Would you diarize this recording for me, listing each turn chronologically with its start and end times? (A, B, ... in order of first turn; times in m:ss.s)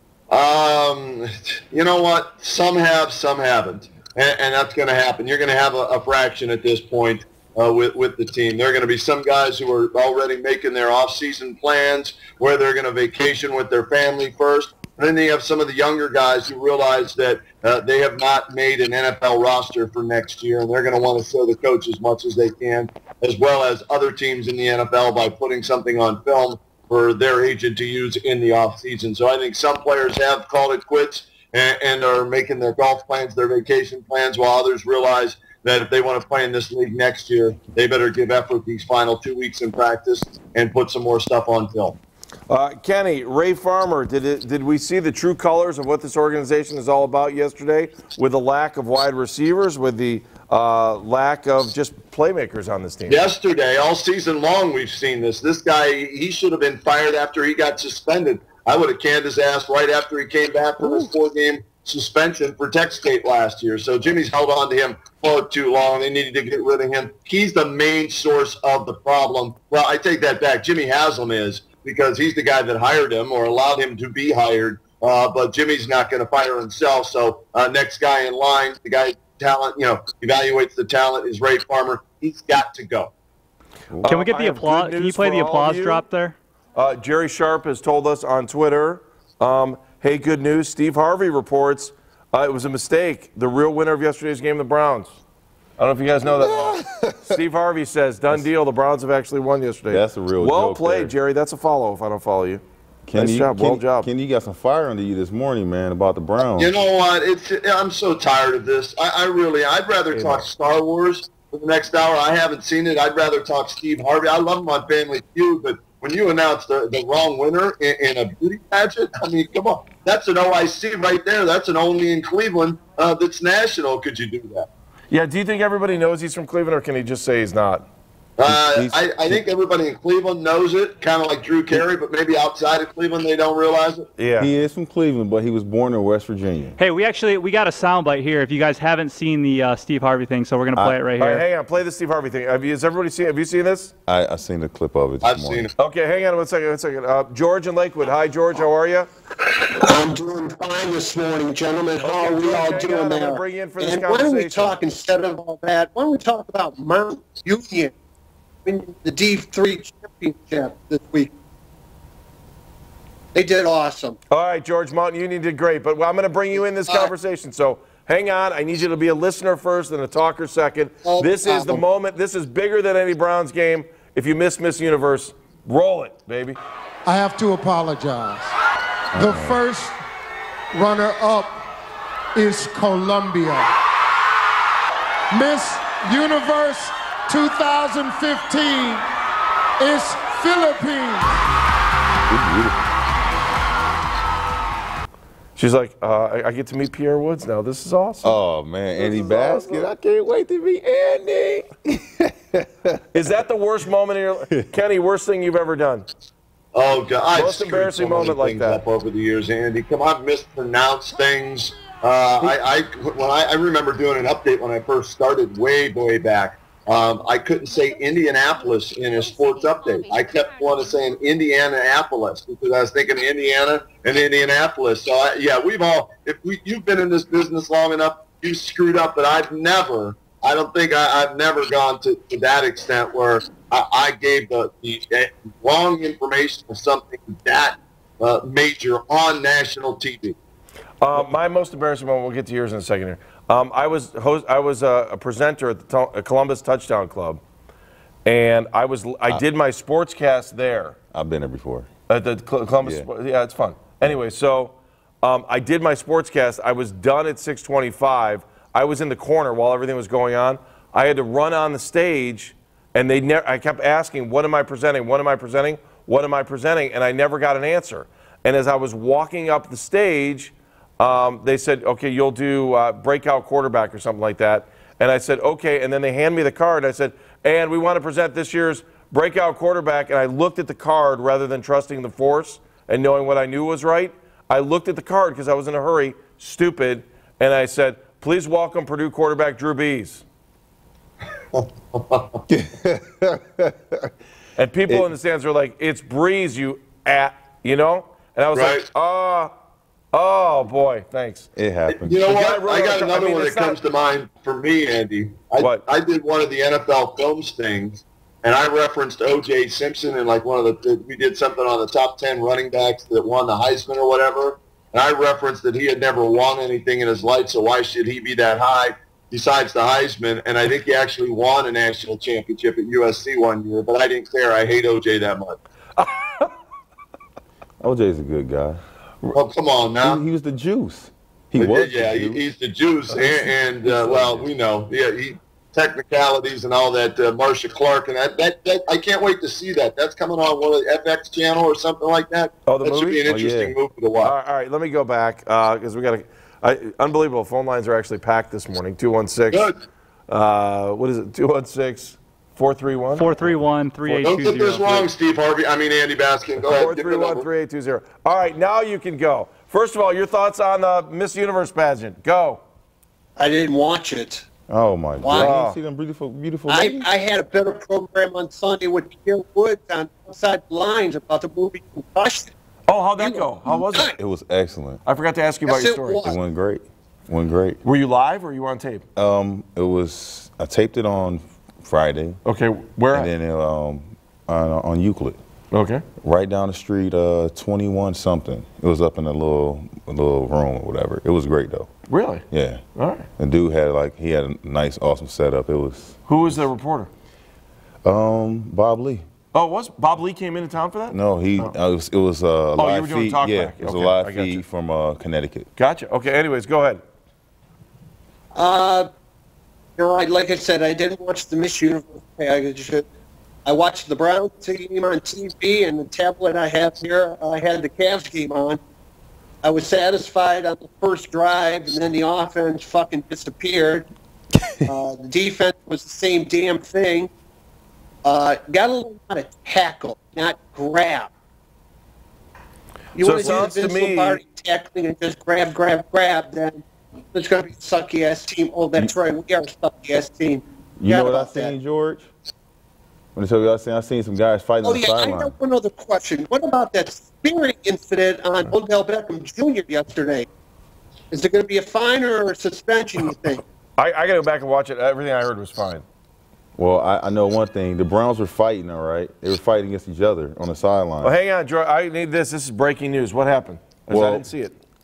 0:00.3-0:42.0 A
0:42.5-0:53.2 B
0:53.1-1:23.1 A
1:00.8-1:01.1 C
1:23.9-1:24.2 C
1:24.0-1:26.0 B
1:24.0-1:26.4 D
1:26.7-1:35.2 B
1:35.8-1:42.6 B
1:36.2-1:37.4 C
1:39.9-1:41.1 C
1:43.0-1:46.7 C
1:43.1-1:44.1 B
1:46.6-2:04.7 A
2:05.1-2:07.8 B
2:08.4-2:14.1 A
2:08.4-2:09.4 C
2:14.2-2:14.5 B
2:14.4-2:16.8 C
2:16.8-2:21.4 D
2:21.2-2:23.9 B
2:24.1-2:25.7 C
2:25.2-2:25.7 A
2:25.8-2:29.1 B
2:29.5-2:37.9 E
2:32.0-2:34.8 B
2:38.6-2:41.3 E
2:43.3-2:44.2 E
2:44.3-2:56.6 B
2:46.5-2:47.1 E
2:51.0-2:51.8 E
2:57.0-2:58.5 F
2:59.1-2:59.6 C
2:59.1-3:00.0 F
3:00.7-3:01.6 F
3:02.3-3:03.7 F
3:05.3-3:09.1 F
3:09.8-3:11.4 F
3:12.3-3:12.8 C
3:15.6-3:18.4 B
3:18.2-3:23.0 C
3:19.0-3:19.9 B
3:23.1-3:26.1 B
3:26.7-4:00.4 A
3:27.3-3:28.8 B
4:01.0-4:07.4 B
4:08.2-4:11.0 B
4:11.1-4:11.9 C
4:12.1-4:50.2 B
4:51.5-4:52.4 A
4:52.5-4:54.1 C
4:54.6-4:59.5 B
4:58.5-4:58.8 A
5:00.1-5:01.5 B
5:01.6-5:02.2 C
5:01.9-5:25.6 A
5:02.2-5:03.8 B
5:05.6-5:05.8 B
5:26.0-5:26.5 B
5:27.8-5:28.8 C
5:29.3-5:30.2 A
5:30.0-5:32.4 C
5:31.6-5:44.3 A
5:33.9-5:34.4 B
5:42.6-5:43.2 B
5:43.2-5:43.7 C
5:44.2-5:49.7 B
5:50.3-5:53.5 B
5:53.1-5:55.1 D
5:54.2-5:57.4 A
5:56.6-6:02.6 B
6:03.4-6:04.4 E
6:04.7-6:07.1 C
6:05.2-6:05.6 E
6:05.3-6:05.8 B
6:06.7-6:12.5 E
6:12.9-6:14.1 B
6:13.2-6:14.1 E
6:13.9-6:15.0 C
6:15.0-6:16.3 B
6:15.6-6:16.3 E
6:16.2-6:17.8 C
6:17.8-6:19.0 B
6:19.2-6:22.4 C
6:22.4-6:23.3 B
6:23.1-6:25.4 C
6:25.7-6:26.0 B
6:26.2-6:31.9 C
6:32.1-6:32.4 B
6:32.5-6:32.8 C
6:32.9-6:33.3 B
6:33.4-6:36.2 C
6:36.3-6:37.1 B
6:38.0-6:39.2 C
6:39.5-6:41.7 B
6:41.1-6:45.7 C
6:42.8-6:44.6 B
6:45.8-6:47.0 B
6:48.5-6:49.1 E
6:50.0-6:53.0 E
6:53.6-6:58.8 E
6:59.6-7:04.1 E
7:04.8-7:07.3 E
7:08.2-7:11.3 E
7:13.1-7:21.7 E
7:13.2-7:14.4 B
7:21.0-7:22.3 C
7:23.4-7:25.5 C
7:24.8-7:30.4 E
7:31.3-7:33.6 E
7:34.0-7:36.0 B
7:36.8-7:41.3 C
7:41.2-7:44.7 B
7:44.1-7:44.5 C